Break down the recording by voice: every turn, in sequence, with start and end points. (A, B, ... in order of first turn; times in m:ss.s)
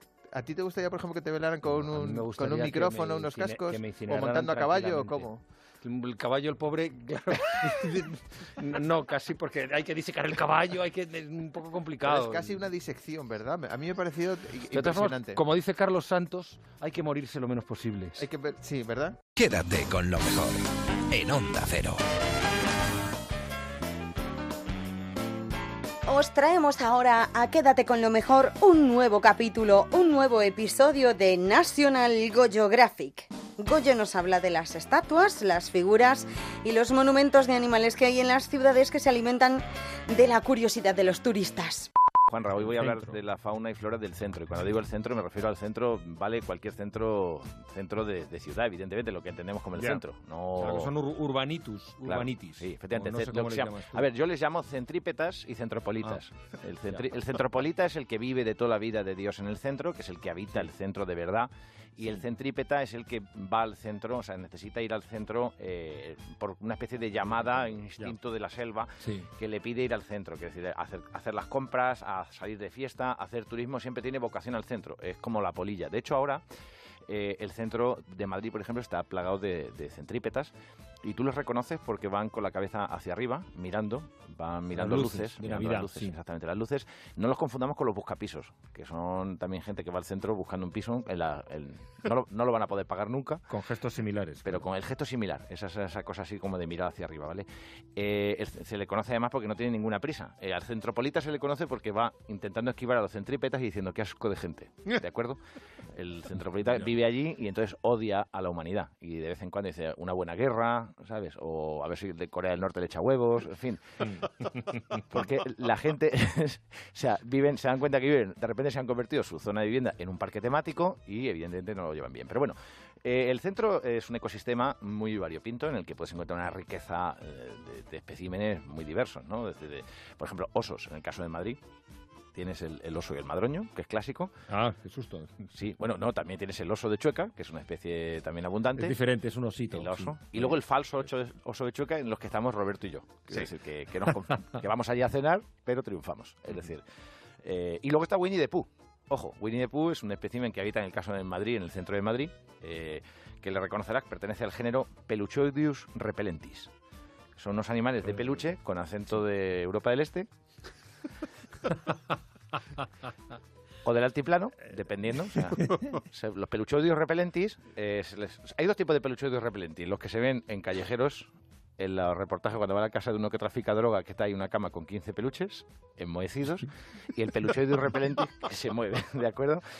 0:00.3-0:05.4 A
0:01.7-0:12.6 B
0:12.0-0:15.4 A
0:14.7-0:18.2 B
0:18.2-0:19.2 A
0:19.4-0:22.0 C
0:26.1-0:41.9 D
0:42.3-0:50.9 E
0:42.6-0:43.1 B
0:49.8-0:54.0 B
0:52.0-1:16.4 E
1:07.2-1:08.2 B
1:17.1-1:20.5 E
1:21.0-1:33.4 E
1:24.7-1:26.1 B
1:33.5-1:34.6 B
1:34.4-1:45.4 E
1:45.9-1:53.8 E
1:55.1-2:11.6 E
2:12.4-2:14.3 E
2:14.5-2:15.4 B
2:15.6-2:19.0 E
2:18.8-2:20.6 B
2:19.7-2:26.8 E
2:27.4-2:36.7 E
2:37.4-2:40.3 E
2:43.8-2:59.6 E